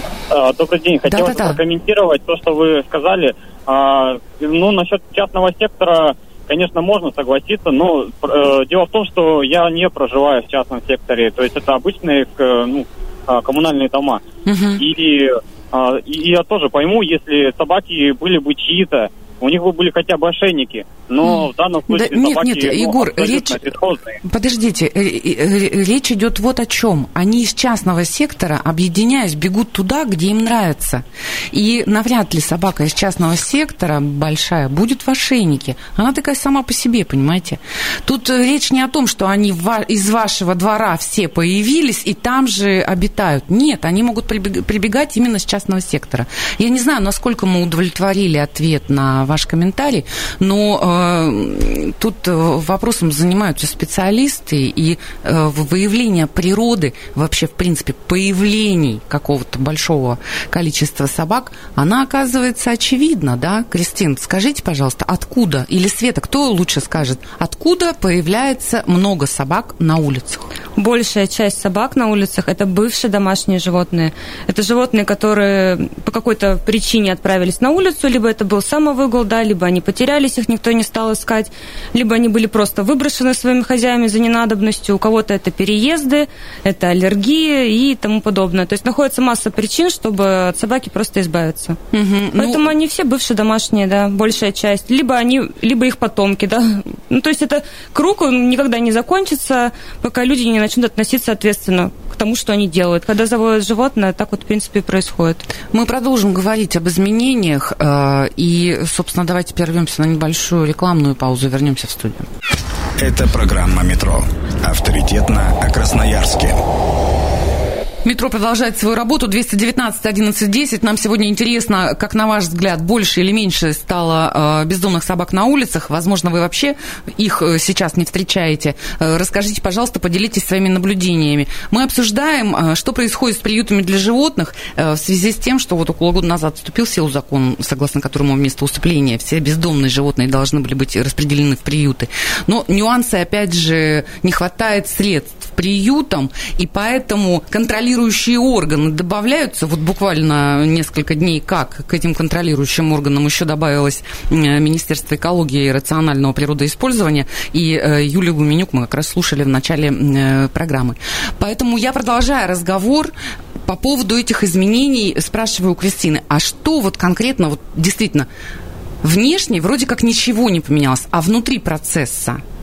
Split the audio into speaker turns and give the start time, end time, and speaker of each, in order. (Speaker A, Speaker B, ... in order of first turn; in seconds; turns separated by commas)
Speaker A: 0.3-14.2, Speaker B: 1.1-1.6, Speaker B: 14.4-14.8, Speaker A: 14.8-24.1, Speaker B: 21.2-23.6, Speaker B: 24.2-70.4, Speaker C: 70.8-91.8, Speaker B: 91.9-92.6, Speaker C: 92.4-105.5, Speaker B: 105.7-112.3, Speaker D: 113.0-116.6, Speaker B: 118.0-163.1, Speaker B: 163.6-168.3, Speaker B: 169.0-172.4